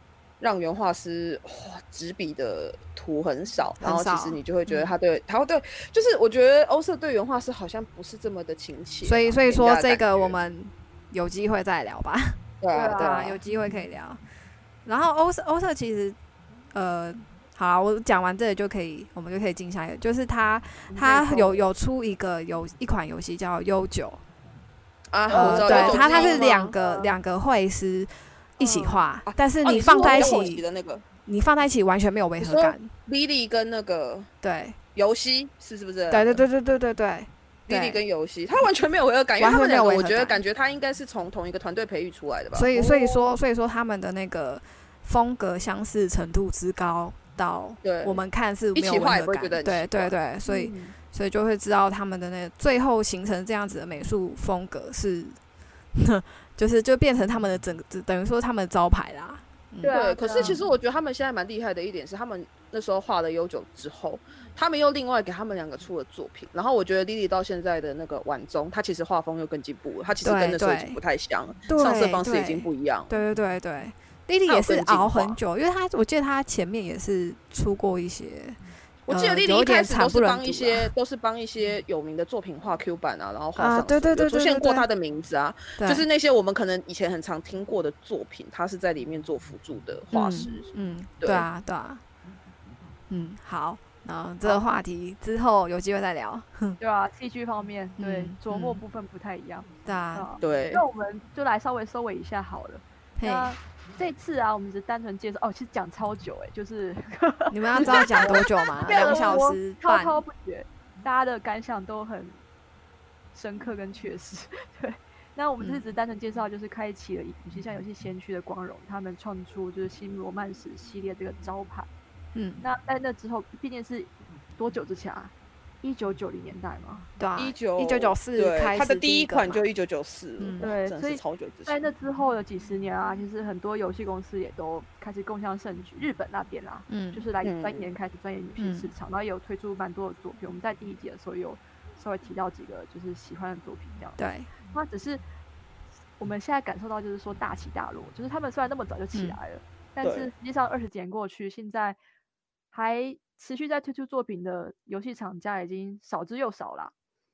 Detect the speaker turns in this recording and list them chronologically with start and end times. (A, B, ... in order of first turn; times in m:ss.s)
0:00.4-0:10.4 A
0:03.8-0:04.9 B
0:09.0-0:14.2 B
0:12.6-0:13.4 A
0:12.7-0:13.2 C
0:14.8-0:16.2 B
0:16.7-0:24.2 B
0:20.9-0:21.6 C
0:25.1-0:26.7 A
0:25.3-0:27.1 C
0:25.3-0:30.6 B
0:28.6-0:29.0 C
0:29.2-0:31.0 A
0:30.0-0:30.4 C
0:31.2-0:32.9 B
0:32.4-0:34.3 A
0:34.4-0:34.8 B
0:34.9-0:36.4 A
0:36.1-0:38.0 B
0:37.7-0:43.3 A
0:39.4-0:40.4 B
0:42.5-0:55.4 B
0:47.8-0:48.2 A
0:48.7-0:50.1 A
0:50.4-0:50.9 C
0:55.9-1:00.6 B
0:59.8-1:00.6 C
0:59.9-1:13.1 A
1:10.2-1:11.0 B
1:11.7-1:20.9 B
1:14.5-1:15.4 A
1:19.1-1:31.5 A
1:23.6-1:24.9 B
1:25.8-1:26.0 B
1:30.1-1:32.0 B
1:33.1-1:36.8 B
1:34.4-1:34.8 C
1:36.8-1:52.4 C
1:38.0-1:38.8 B
1:39.8-1:40.3 B
1:40.4-1:40.8 A
1:43.2-1:43.5 B
1:47.5-1:50.2 B
1:47.8-1:49.4 A
1:53.3-2:01.9 C
2:02.3-2:02.6 B
2:02.6-2:07.1 C
2:07.2-2:09.7 B
2:07.3-2:11.8 A
2:10.4-2:10.7 B
2:10.6-2:25.2 C
2:16.9-2:17.3 B
2:17.4-2:17.9 A
2:18.6-2:18.9 B
2:24.2-2:24.5 B
2:26.2-2:32.0 C
2:30.0-2:30.3 A
2:32.7-2:36.9 C